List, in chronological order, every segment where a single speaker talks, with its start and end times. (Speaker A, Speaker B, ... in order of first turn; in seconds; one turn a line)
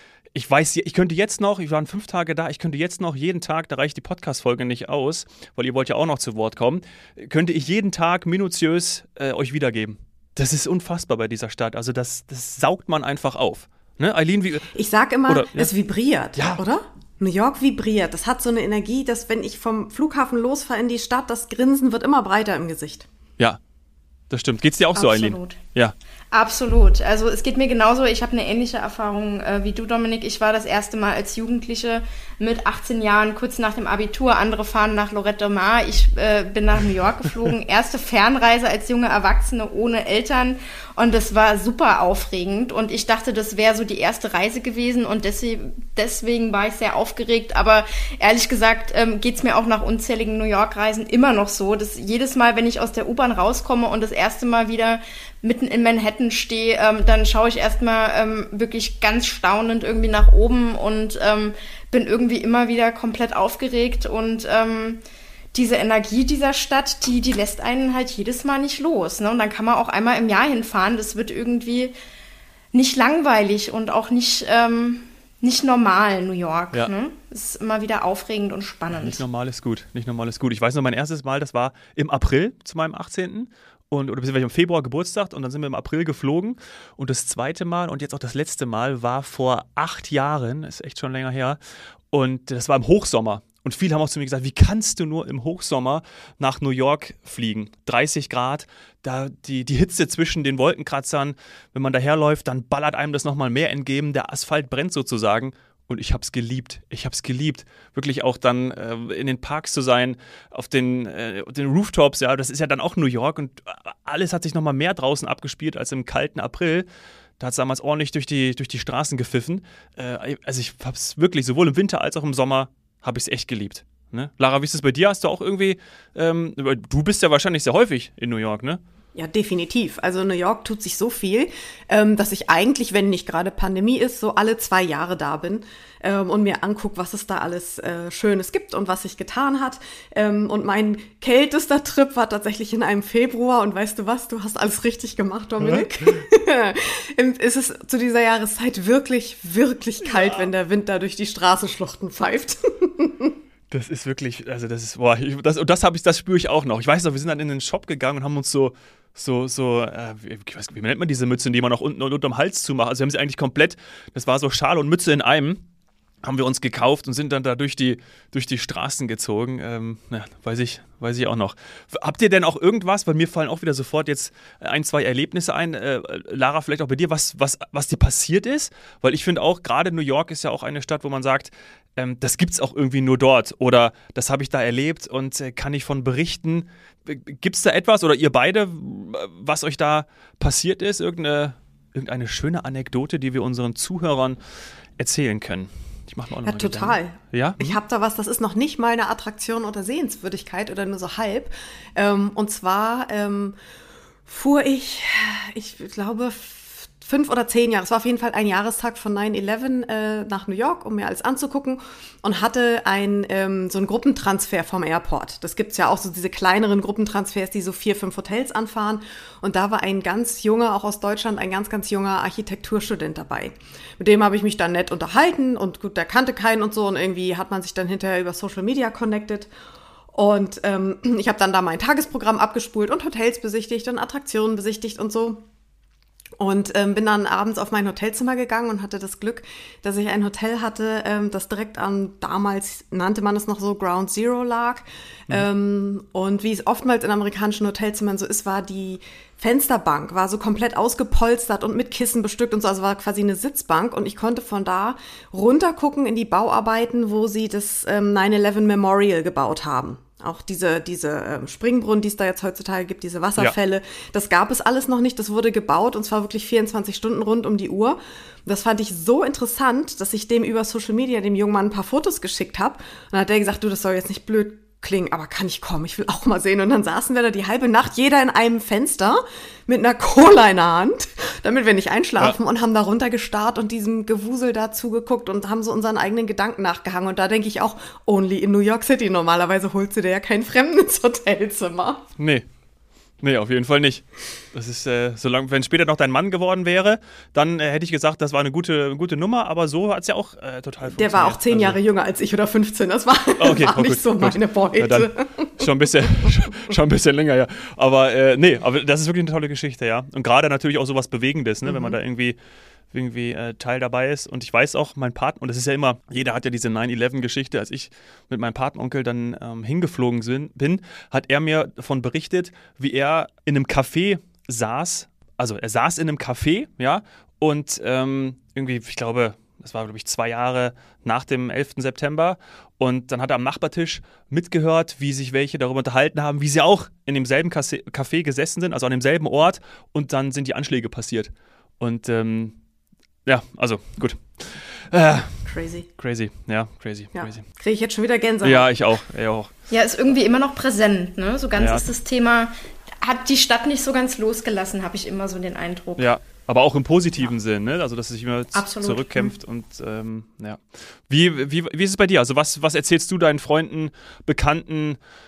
Speaker A: 0.3-14.7
Speaker B: 14.7-23.1
Speaker A: 15.3-15.7
Speaker A: 16.4-16.6
Speaker A: 24.3-25.9
Speaker C: 24.9-25.6
Speaker C: 26.3-65.0
Speaker C: 65.5-71.9
Speaker C: 72.7-79.2
Speaker A: 78.9-91.6
Speaker A: 92.1-116.9
Speaker A: 117.4-128.8
Speaker B: 129.1-153.3
Speaker A: 145.6-145.9
Speaker A: 150.1-150.5
Speaker A: 153.7-165.6
Speaker A: 166.2-194.4
Speaker A: 195.0-197.8
Speaker B: 196.4-203.6
Speaker B: 204.2-229.5
Speaker B: 230.1-235.4
Speaker B: 236.4-292.1
Speaker A: 292.2-292.4
Speaker A: 293.2-301.8
Speaker B: 300.9-305.6
Speaker A: 303.4-312.4
Speaker B: 311.6-311.9
Speaker A: 312.9-342.6
Speaker A: 343.2-347.4
Speaker B: 345.4-345.9
Speaker B: 347.1-348.7
Speaker A: 348.4-349.5
Speaker C: 349.7-352.5
Speaker A: 351.5-351.9
Speaker C: 353.0-356.1
Speaker A: 356.0-365.0
Speaker C: 358.5-359.3